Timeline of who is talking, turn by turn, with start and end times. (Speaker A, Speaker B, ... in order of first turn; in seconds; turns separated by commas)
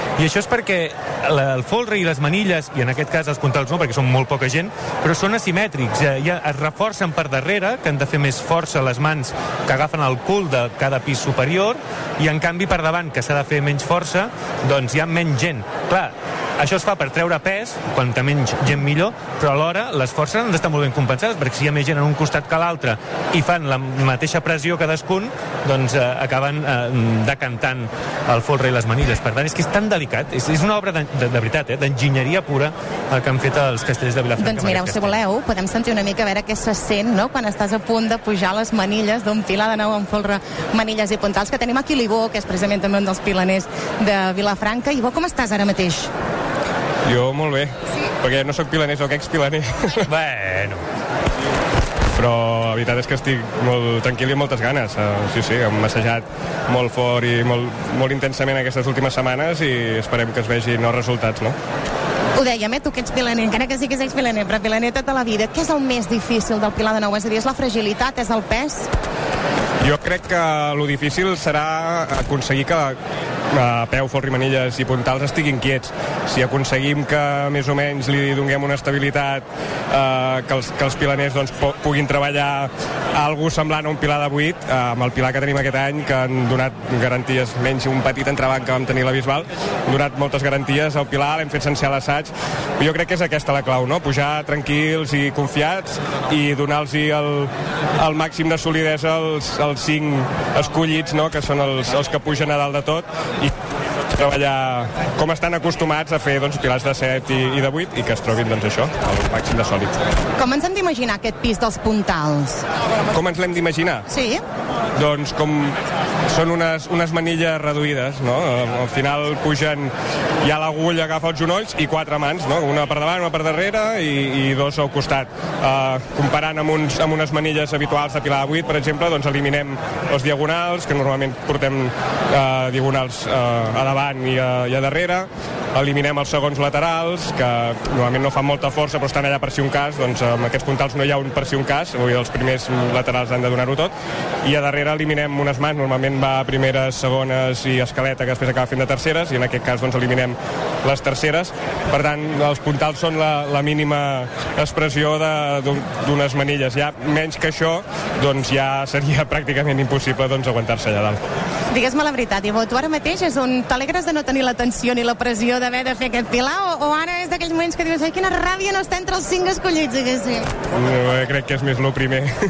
Speaker A: 0.2-35.2, Speaker B: 34.4-46.1, Speaker C: 47.1-50.0, Speaker A: 50.1-50.8, Speaker C: 52.1-61.6, Speaker B: 62.4-68.9, Speaker C: 69.8-73.0, Speaker C: 73.5-103.5, Speaker C: 104.1-110.0, Speaker B: 110.4-112.6, Speaker C: 113.1-114.0, Speaker B: 114.1-114.4, Speaker C: 115.0-115.8, Speaker C: 116.3-119.9, Speaker C: 120.4-143.9, Speaker C: 144.4-161.2, Speaker B: 161.7-170.5, Speaker C: 170.7-172.3